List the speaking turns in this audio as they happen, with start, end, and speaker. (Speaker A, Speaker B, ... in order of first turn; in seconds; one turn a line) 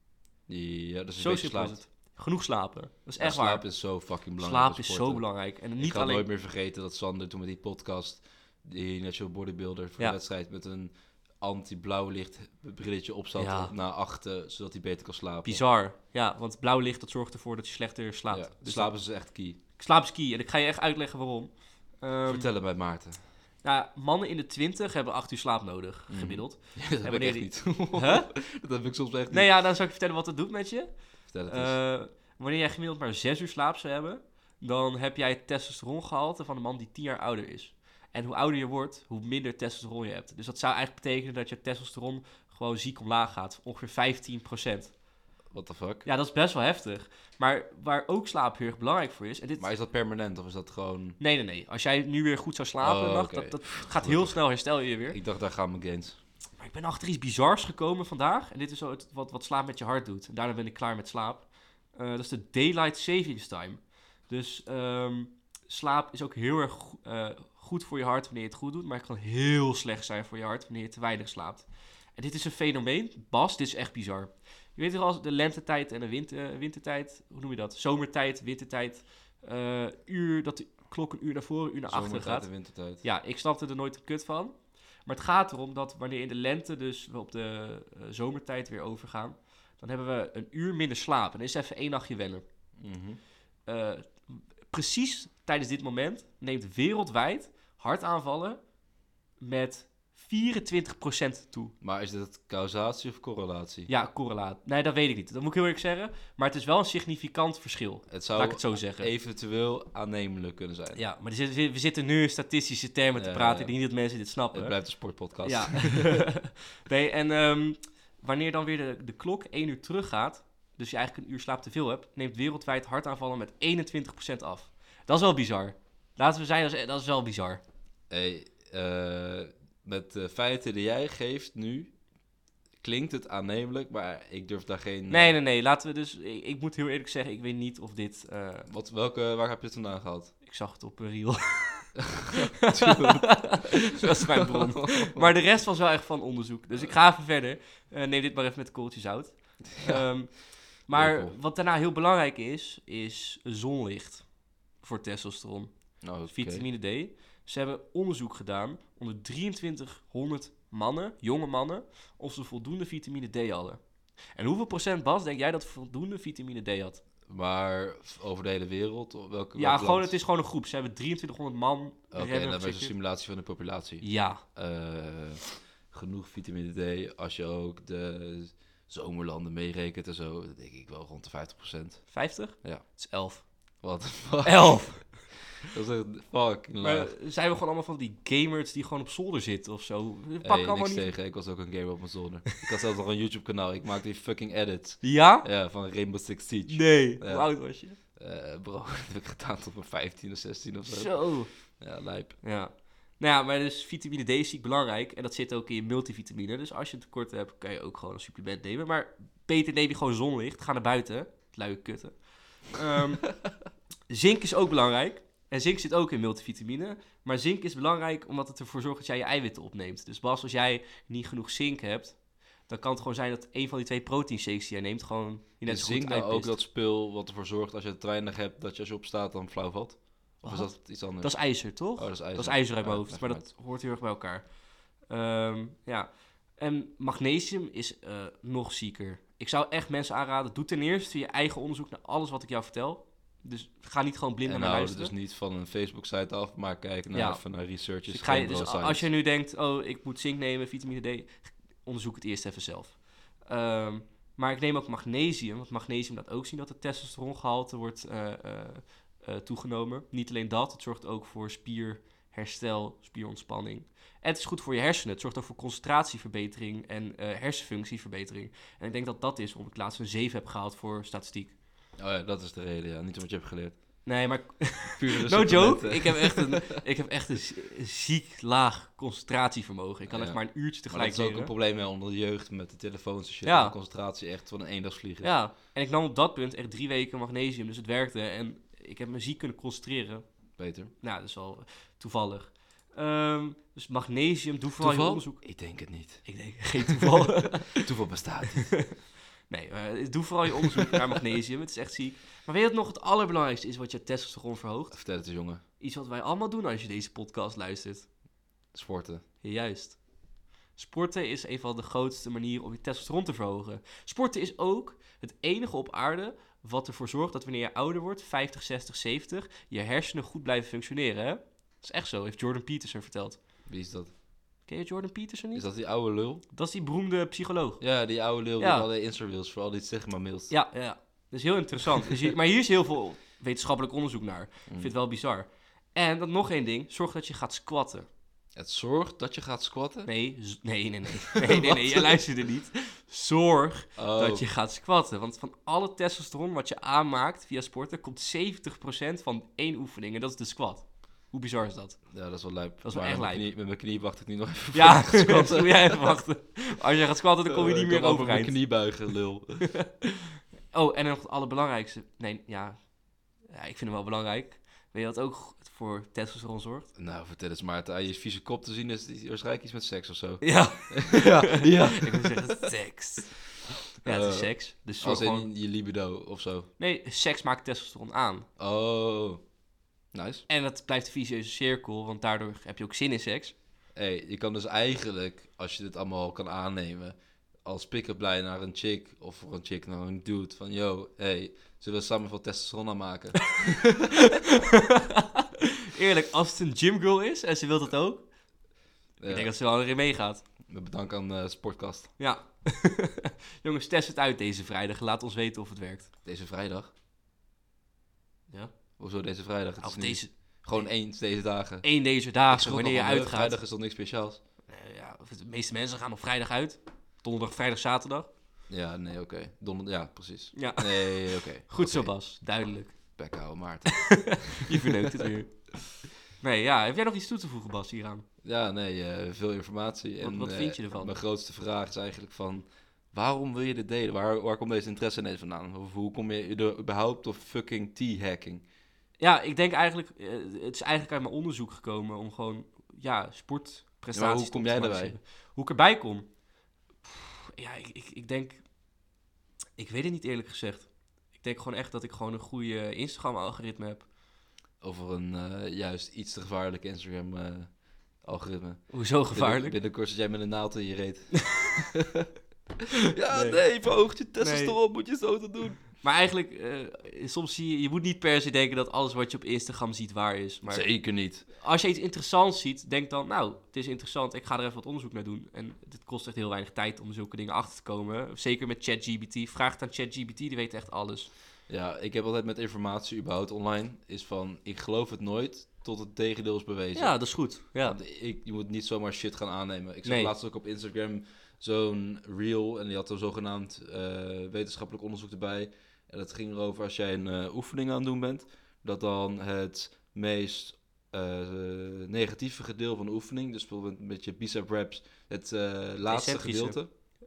Speaker A: 0.5-1.8
Speaker B: 1.2-3.6
Speaker A: 3.2-5.2
Speaker B: 4.4-6.2
Speaker A: 5.8-15.6
Speaker B: 13.4-13.7
Speaker B: 15.4-18.9
Speaker A: 18.3-19.6
Speaker B: 19.8-22.5
Speaker A: 22.3-23.2
Speaker B: 23.6-28.3
Speaker A: 26.1-29.5
Speaker B: 29.3-30.9
Speaker A: 31.3-31.8
Speaker B: 31.5-44.9
Speaker A: 45.5-46.1
Speaker B: 46.0-49.7
Speaker A: 49.6-51.2
Speaker B: 51.2-55.2
Speaker A: 52.8-54.4
Speaker A: 55.1-56.2
Speaker B: 56.6-82.5
Speaker A: 81.9-83.0
Speaker B: 83.0-92.4
Speaker A: 92.8-93.2
Speaker B: 93.7-98.6
Speaker B: 99.4-101.7
Speaker A: 101.8-103.9
Speaker B: 103.9-109.1
Speaker A: 108.1-111.0
Speaker B: 111.0-114.8
Speaker A: 113.2-113.7
Speaker A: 114.5-116.2
Speaker B: 115.4-127.6
Speaker A: 128.1-131.9
Speaker A: 132.8-135.4
Speaker B: 135.1-138.7
Speaker A: 138.7-140.3
Speaker B: 140.4-154.3
Speaker A: 142.2-145.3
Speaker A: 149.7-150.1
Speaker A: 150.9-151.4
Speaker B: 154.8-163.8
Speaker A: 156.0-156.7
Speaker B: 164.3-167.0
Speaker A: 167.3-170.2
Speaker B: 169.6-172.9
Speaker A: 172.1-182.8
Speaker B: 174.0-174.4
Speaker B: 182.1-183.5
Speaker A: 183.8-187.1
Speaker B: 184.4-185.3
Speaker B: 186.8-191.1
Speaker A: 190.4-202.4
Speaker B: 195.0-195.5
Speaker B: 196.7-198.0
Speaker B: 200.9-201.5
Speaker B: 202.4-213.3
Speaker B: 214.1-222.2
Speaker B: 222.7-226.6
Speaker A: 225.7-233.5
Speaker B: 230.4-234.5
Speaker B: 235.1-245.1
Speaker A: 244.4-249.1
Speaker B: 247.1-247.4
Speaker B: 248.1-271.5
Speaker A: 272.0-273.8
Speaker B: 274.1-281.5
Speaker A: 274.9-276.8
Speaker A: 280.1-285.4
Speaker B: 283.4-283.7
Speaker B: 285.2-290.2
Speaker A: 290.6-290.9
Speaker B: 291.0-295.4
Speaker A: 294.8-298.8
Speaker B: 296.2-297.9
Speaker B: 298.5-305.0
Speaker A: 304.9-305.6
Speaker B: 305.8-308.1
Speaker A: 308.7-309.2
Speaker B: 309.4-310.0
Speaker B: 310.8-323.4
Speaker A: 323.7-324.1
Speaker B: 324.7-325.7
Speaker A: 325.5-326.4
Speaker B: 326.5-327.8
Speaker A: 327.8-330.5
Speaker B: 328.6-328.9
Speaker B: 330.5-338.1
Speaker A: 334.7-334.9
Speaker A: 338.6-340.1
Speaker B: 340.1-352.1
Speaker A: 341.2-342.2
Speaker A: 344.0-344.5
Speaker A: 352.1-356.2
Speaker B: 352.8-353.5
Speaker B: 354.7-358.6
Speaker A: 357.4-359.7
Speaker B: 359.6-362.8
Speaker B: 363.5-366.9
Speaker A: 367.0-372.7
Speaker B: 370.4-373.4
Speaker A: 374.0-376.7
Speaker B: 374.0-375.5
Speaker B: 376.8-378.5
Speaker A: 378.6-379.4
Speaker A: 380.1-380.4
Speaker B: 380.5-383.6
Speaker A: 384.0-394.4
Speaker B: 394.2-398.2
Speaker A: 399.2-399.5
Speaker B: 399.3-400.4
Speaker A: 400.7-402.1
Speaker B: 402.2-406.1
Speaker A: 406.2-406.9
Speaker B: 408.5-408.7
Speaker A: 409.0-411.9
Speaker B: 409.8-410.9
Speaker B: 411.8-413.6
Speaker A: 412.5-414.4
Speaker B: 414.7-418.3
Speaker A: 418.7-422.1
Speaker B: 420.5-423.0
Speaker A: 423.2-425.1
Speaker B: 423.9-428.2
Speaker A: 428.4-438.6
Speaker B: 430.2-431.2
Speaker B: 439.2-446.3
Speaker A: 444.1-445.2
Speaker B: 447.0-448.6
Speaker B: 449.8-454.1
Speaker A: 454.8-462.3
Speaker B: 458.9-459.8
Speaker A: 463.1-465.9
Speaker B: 463.3-463.6
Speaker B: 464.4-464.8
Speaker B: 466.0-481.3
Speaker A: 470.7-471.5
Speaker A: 481.7-487.2
Speaker B: 486.9-488.0
Speaker A: 487.8-506.9
Speaker B: 490.1-490.3
Speaker B: 506.1-506.8